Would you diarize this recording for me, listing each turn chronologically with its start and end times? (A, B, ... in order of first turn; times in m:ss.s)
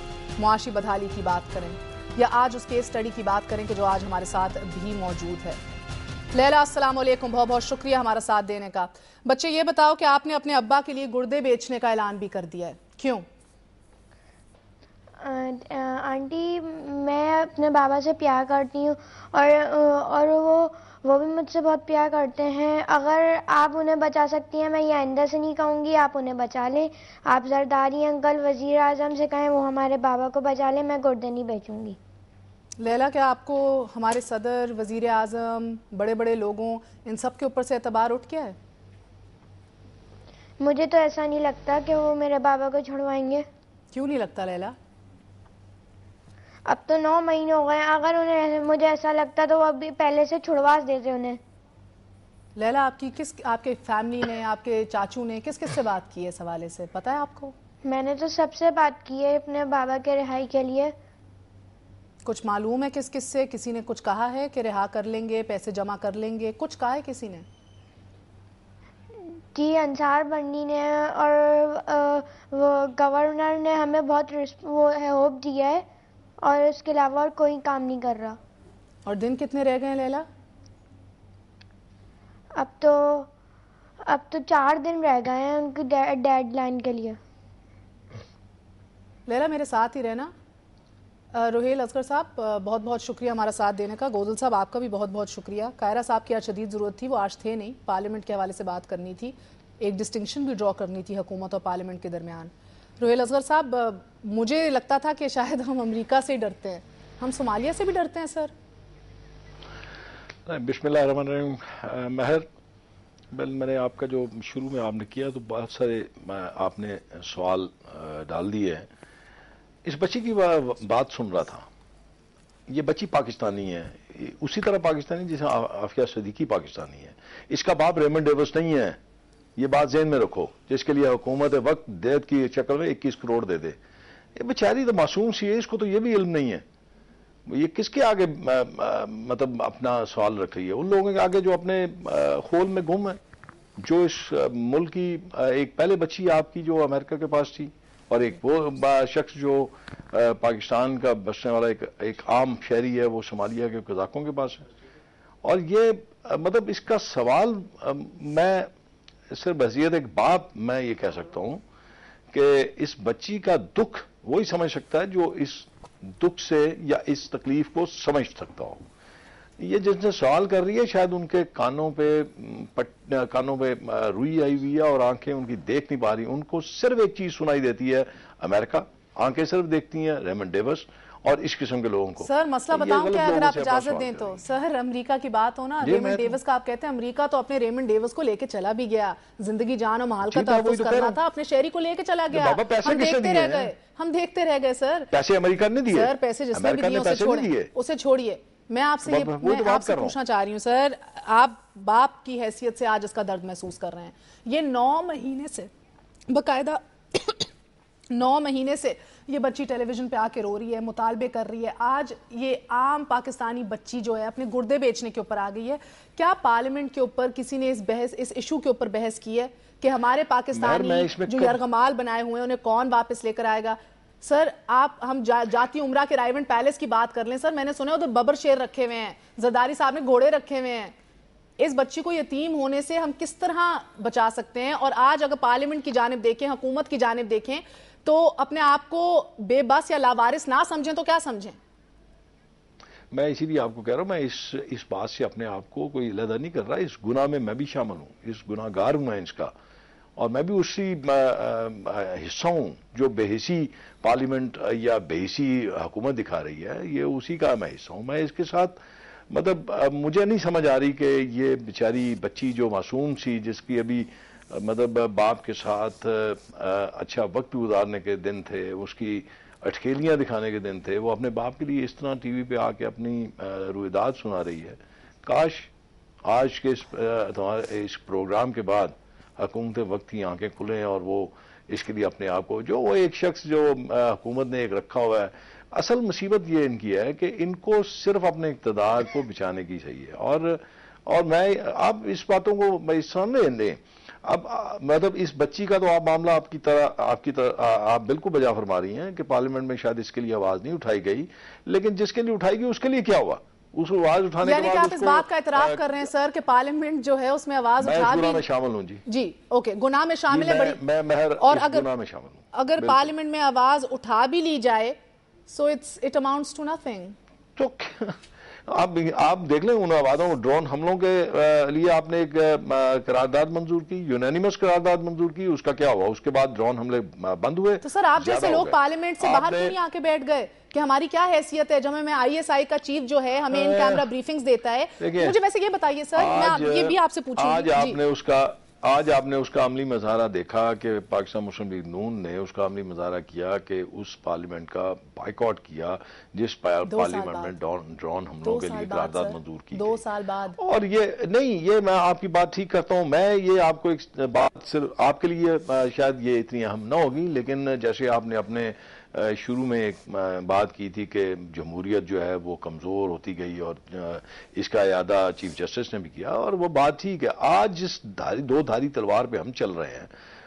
0:00.4-0:05.6 A
0:06.3-0:13.2 A
0:15.2-0:32.0 B
0:32.8-0:38.5 A
0:40.6-0:43.4 B
0:43.9-0:44.7 A
0:46.7-0:51.4 B
0:52.6-0:57.5 A
0:57.8-1:00.9 B
1:02.2-1:07.4 A
1:09.5-1:15.8 B
1:16.4-1:18.4 B
1:19.0-1:20.2 A
1:22.6-1:23.3 B
1:24.0-1:27.2 B
1:29.3-1:30.3 A
1:31.3-1:48.5 A
1:50.4-1:52.4 C
1:53.3-1:58.9 C
1:59.8-2:01.7 C
2:02.7-2:09.0 C
2:09.6-2:13.8 C
2:14.4-2:16.6 C
2:17.5-2:23.2 C
2:23.8-2:34.6 C
2:35.4-2:38.7 C
2:39.3-2:41.6 C
2:42.3-2:48.8 C
2:49.6-3:04.4 C
3:02.2-3:15.1 A
3:05.8-3:06.4 C
3:10.2-3:11.2 C
3:12.3-3:13.7 C
3:15.1-3:17.7 C
3:15.9-3:25.7 A
3:19.0-3:20.1 C
3:26.3-3:27.5 A
3:28.1-3:50.9 A
3:40.5-3:41.6 C
3:51.6-4:01.6 A
4:03.1-4:09.5 C
4:10.2-4:18.8 C
4:19.3-4:35.7 C
4:36.2-5:06.1 C
5:04.4-5:08.4 A
5:07.8-5:09.0 C
5:09.0-5:10.8 A
5:10.3-5:13.1 C
5:11.4-5:11.9 A
5:12.5-5:14.9 A
5:15.5-5:17.1 A
5:17.6-5:18.2 C
5:18.7-5:29.8 C
5:27.8-5:38.0 A
5:33.5-5:34.0 C
5:35.0-5:35.4 C
5:36.1-5:50.0 C
5:46.8-5:47.5 A
5:48.4-5:50.6 A
5:50.6-6:10.1 C